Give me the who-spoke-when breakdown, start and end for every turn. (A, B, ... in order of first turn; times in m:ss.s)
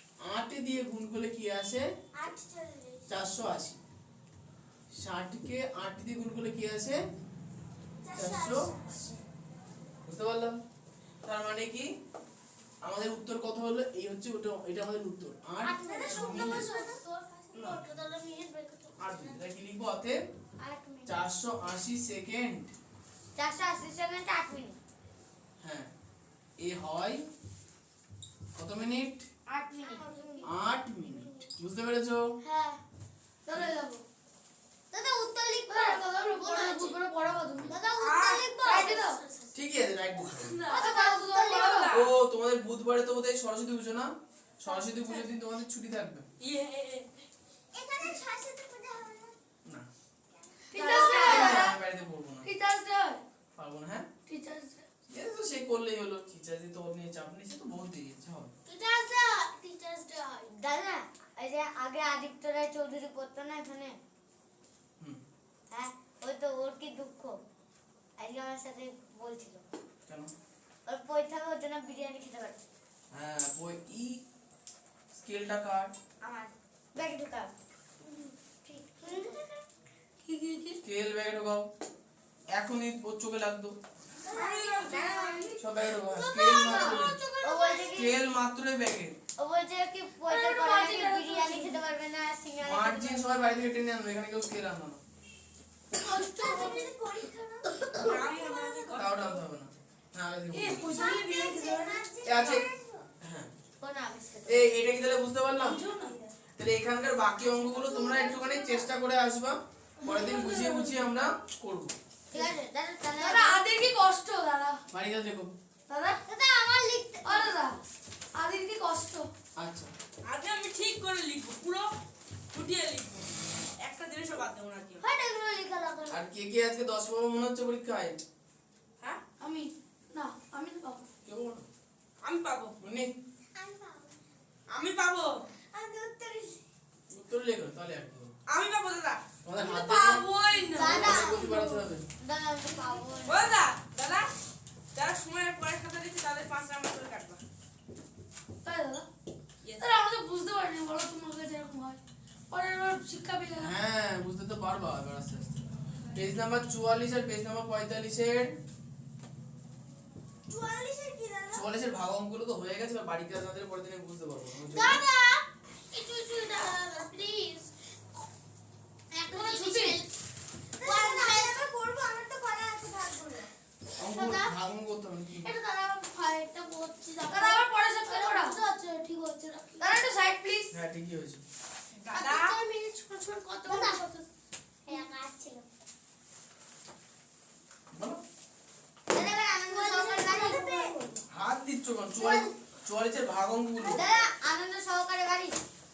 0:00.2-0:01.9 A
0:02.2-0:03.1 B
0:03.1-0:03.8 A
0:05.0-0:07.0 A
0:08.0-0:09.3 B
0:08.2-0:08.8 A
0:10.1-0:10.6 A
0:11.2-0:11.9 A
0:12.9-0:16.7 A
0:15.6-0:16.7 C
0:15.8-0:17.1 B
0:16.1-0:19.4 D
0:17.5-0:17.8 A
0:19.0-0:20.2 A
0:20.6-0:21.2 C
0:21.1-0:22.7 A
0:23.4-0:24.8 C
0:25.6-0:25.9 A
0:26.6-0:27.3 A
0:28.6-0:29.3 A
0:29.5-0:30.4 C
0:30.0-0:30.5 D
0:30.0-0:30.3 B
0:30.4-0:32.3 A
0:32.4-0:32.8 C
0:33.5-0:34.0 E
0:34.9-0:36.0 C
0:35.7-0:37.8 E
0:36.3-0:37.0 D
0:37.6-0:39.5 D
0:38.0-0:38.4 F
0:38.1-0:38.5 B
0:38.6-0:39.2 E
0:39.5-0:40.6 A
0:40.4-0:42.0 E
0:40.7-0:41.7 D
0:40.8-0:41.8 C
0:41.4-0:42.1 F
0:41.9-0:46.3 A
0:46.4-0:47.1 F
0:47.7-0:49.4 B
0:50.7-0:51.8 E
0:50.7-0:51.6 D
0:50.8-0:51.2 B
0:50.9-0:51.2 C
0:51.0-0:52.5 A
0:52.4-0:53.2 E
0:53.6-0:54.1 A
0:54.3-0:54.9 E
0:55.1-0:58.5 A
0:58.7-1:00.5 D
1:00.5-1:04.0 C
1:05.7-1:07.4 C
1:08.2-1:09.6 C
1:10.9-1:12.6 C
1:13.1-1:14.2 A
1:15.1-1:15.9 A
1:16.2-1:17.5 C
1:18.0-1:19.6 B
1:19.0-1:19.4 C
1:20.2-1:20.8 E
1:20.8-1:21.7 A
1:22.5-1:23.8 A
1:24.3-1:25.6 B
1:24.3-1:25.0 F
1:24.4-1:28.1 D
1:24.9-1:25.5 C
1:25.6-1:27.2 A
1:27.4-1:28.2 C
1:28.0-1:29.2 A
1:29.4-1:33.4 C
1:30.3-1:31.8 E
1:32.6-1:35.0 A
1:36.0-1:36.9 E
1:36.0-1:39.0 B
1:38.0-1:39.4 F
1:39.0-1:41.1 A
1:40.5-1:42.1 E
1:40.9-1:43.1 B
1:42.2-1:42.7 A
1:43.2-1:43.5 A
1:43.8-1:44.8 C
1:44.5-1:45.8 A
1:45.6-1:46.3 E
1:46.6-1:52.0 A
1:50.0-1:51.1 E
1:52.3-1:53.6 C
1:53.2-1:54.8 E
1:54.9-1:55.5 A
1:55.9-1:56.2 E
1:56.3-1:57.5 C
1:57.2-1:57.7 E
1:58.4-1:59.3 E
1:59.6-1:59.9 A
2:00.3-2:01.9 F
2:02.5-2:05.0 F
2:05.0-2:06.2 C
2:06.1-2:08.2 A
2:09.4-2:11.1 E
2:11.2-2:11.7 A
2:12.2-2:12.8 F
2:12.8-2:13.2 A
2:13.6-2:14.2 B
2:14.7-2:15.4 F
2:15.7-2:16.6 B
2:17.1-2:18.3 A
2:18.5-2:19.2 F
2:19.4-2:22.1 A
2:19.5-2:21.9 E
2:20.7-2:21.4 C
2:22.2-2:23.6 C
2:23.3-2:24.3 F
2:25.0-2:27.4 F
2:28.6-2:29.1 E
2:29.8-2:32.0 E
2:32.5-2:33.7 E
2:33.6-2:38.6 A
2:40.5-2:41.7 B
2:41.5-2:45.0 A
2:44.7-2:47.7 D
2:49.1-2:50.1 D
2:49.3-2:50.0 E
2:50.8-2:53.5 B
2:50.8-2:51.7 D
2:54.0-2:55.5 A
2:54.0-2:54.5 D
2:55.4-3:00.0 D
2:57.3-2:58.6 E
2:59.8-3:00.7 E
3:00.7-3:01.4 A
3:02.0-3:02.6 F
3:02.1-3:04.3 D
3:03.7-3:04.0 B
3:04.9-3:05.4 C
3:04.9-3:05.6 B
3:07.9-3:08.2 A
3:09.1-3:10.9 C
3:09.7-3:10.6 D
3:09.8-3:11.2 B
3:11.3-3:14.1 A
3:13.9-3:15.6 C